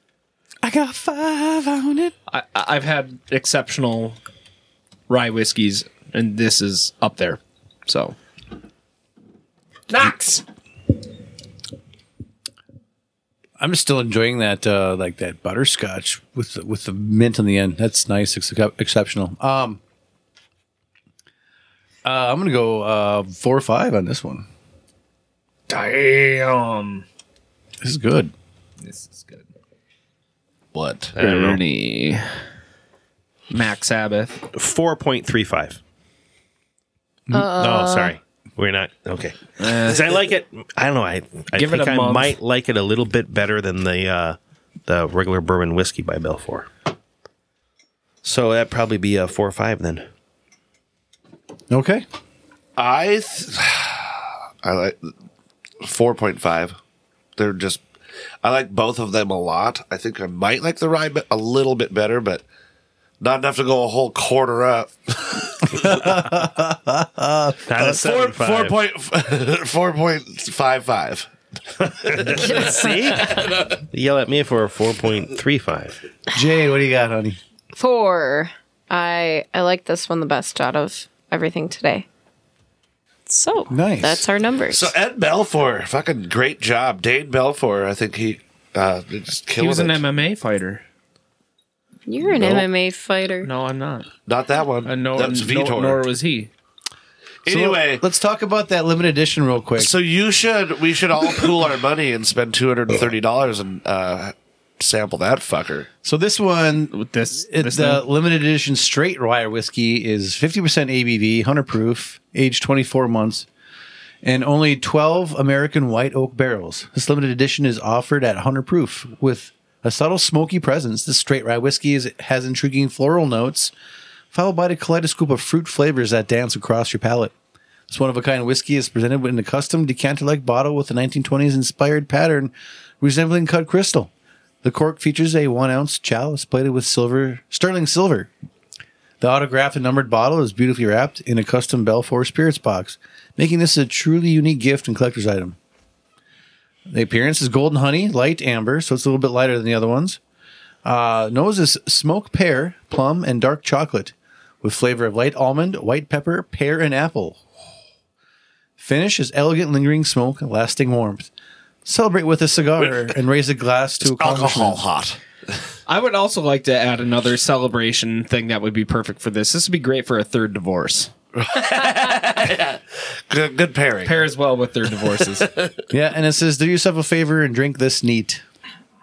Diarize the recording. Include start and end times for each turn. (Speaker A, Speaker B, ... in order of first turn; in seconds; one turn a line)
Speaker A: 0.6-2.1
Speaker B: 2.3-4.2
Speaker B: 5.1-8.2
Speaker B: 9.9-10.5
Speaker A: 13.6-19.8
Speaker A: 22.1-24.5
Speaker B: 25.7-27.1
Speaker A: 27.8-28.3
Speaker B: 28.8-29.5
Speaker C: 30.7-31.5
Speaker B: 31.2-32.3
Speaker D: 31.2-31.6
Speaker B: 33.5-34.5
Speaker D: 34.5-35.8
Speaker E: 37.3-38.2
Speaker D: 37.4-46.7
Speaker B: 39.6-40.2
Speaker B: 41.5-42.4
Speaker D: 48.2-50.1
Speaker A: 51.7-52.0
Speaker C: 52.8-55.1
Speaker C: 55.8-56.8
Speaker C: 57.4-57.8
Speaker C: 58.4-62.4
Speaker C: 63.2-66.0
Speaker A: 65.7-68.0
Speaker D: 67.7-68.8
Speaker C: 67.8-71.3
Speaker D: 71.8-76.0
Speaker C: 72.0-73.8
Speaker E: 72.4-73.1
Speaker A: 76.3-77.4
Speaker E: 77.7-82.1
Speaker E: 83.3-84.9
Speaker A: 83.7-84.3
Speaker C: 84.7-90.0
Speaker B: 89.6-90.8
Speaker E: 92.1-93.5
Speaker B: 93.4-94.1
Speaker C: 94.3-96.0
Speaker B: 94.8-96.5
Speaker C: 97.5-98.0
Speaker A: 97.5-99.9
Speaker C: 99.8-105.9
Speaker A: 106.0-113.5
Speaker B: 106.9-108.0
Speaker A: 114.2-123.7
Speaker A: 124.3-127.3
Speaker A: 127.9-134.1
Speaker A: 134.6-138.3
Speaker A: 139.2-145.6
Speaker A: 146.9-150.2
Speaker A: 150.8-157.4
Speaker A: 158.8-161.3
Speaker A: 161.8-164.8
Speaker C: 164.0-165.2
Speaker B: 165.9-171.1
Speaker C: 171.3-174.3
Speaker B: 174.0-175.5
Speaker C: 175.4-175.7
Speaker A: 175.9-178.4